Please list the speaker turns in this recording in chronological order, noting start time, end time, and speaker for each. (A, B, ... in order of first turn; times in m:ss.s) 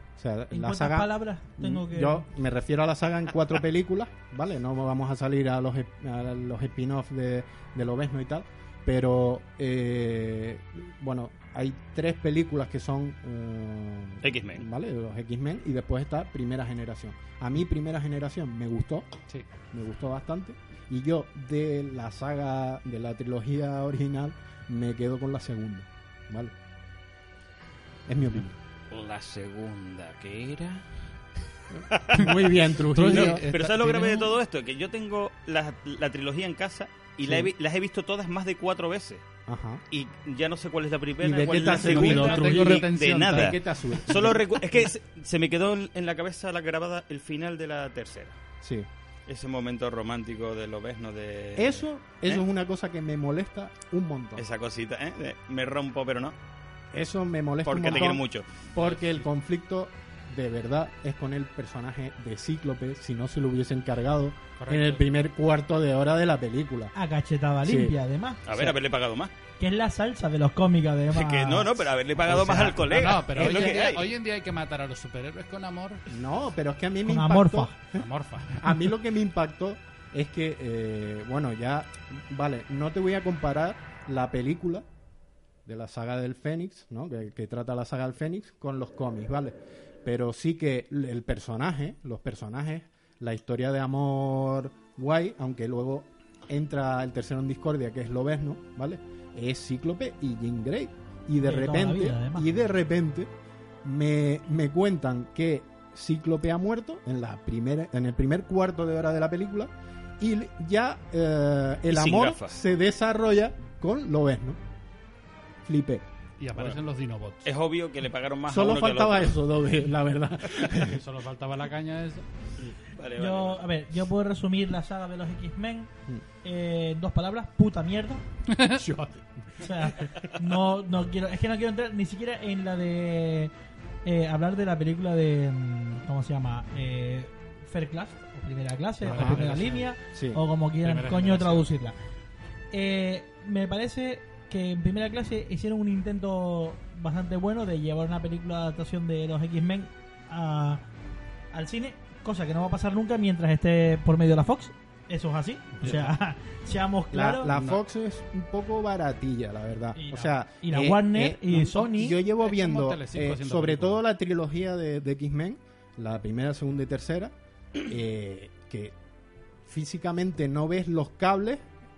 0:00.2-0:19.1 A
0:00.5-0:02.2 B
0:14.2-0:14.6 C
0:19.7-0:26.5 A
0:28.1-0:28.6 A
0:28.9-0:30.9 C
0:31.7-0:33.4 A
0:31.9-0:32.3 C
0:32.8-0:34.3 D
0:33.1-0:39.2 C
0:37.2-0:37.5 A
0:39.5-0:39.8 A
0:39.9-0:48.4 C
0:41.2-0:44.8 A
0:41.6-0:43.6 D
0:48.6-0:48.9 A
0:49.3-0:52.4 C
0:51.6-0:54.5 A
0:54.4-0:56.4 C
0:56.9-1:06.9 A
0:57.6-0:58.6 C
0:58.8-0:59.2 D
1:04.6-1:05.1 D
1:06.9-1:08.4 B
1:07.6-1:08.0 A
1:08.5-1:09.3 C
1:08.5-1:08.8 A
1:09.6-1:11.9 B
1:11.1-1:14.1 C
1:12.3-1:16.1 D
1:12.4-1:12.7 A
1:16.1-1:18.0 A
1:17.0-1:17.7 B
1:17.9-1:18.8 D
1:18.6-1:24.8 A
1:25.7-1:43.3 A
1:41.4-1:42.5 B
1:43.8-1:54.6 A
1:51.9-1:52.6 C
1:55.6-1:56.8 A
1:56.4-1:57.5 D
1:57.4-1:59.4 C
1:58.5-2:01.0 A
2:00.7-2:02.2 D
2:03.0-2:03.6 C
2:03.2-2:05.9 B
2:06.4-2:08.2 B
2:08.5-2:08.8 D
2:08.7-2:09.7 A
2:09.6-2:13.5 B
2:14.0-2:22.0 B
2:19.0-2:19.9 D
2:19.0-2:19.4 A
2:20.1-2:20.4 A
2:20.8-2:21.7 D
2:22.7-2:30.8 B
2:31.5-2:37.5 B
2:35.8-2:36.1 D
2:37.1-2:49.0 A
2:37.5-2:37.8 D
2:40.0-2:42.2 B
2:42.3-2:44.0 D
2:49.7-2:51.6 A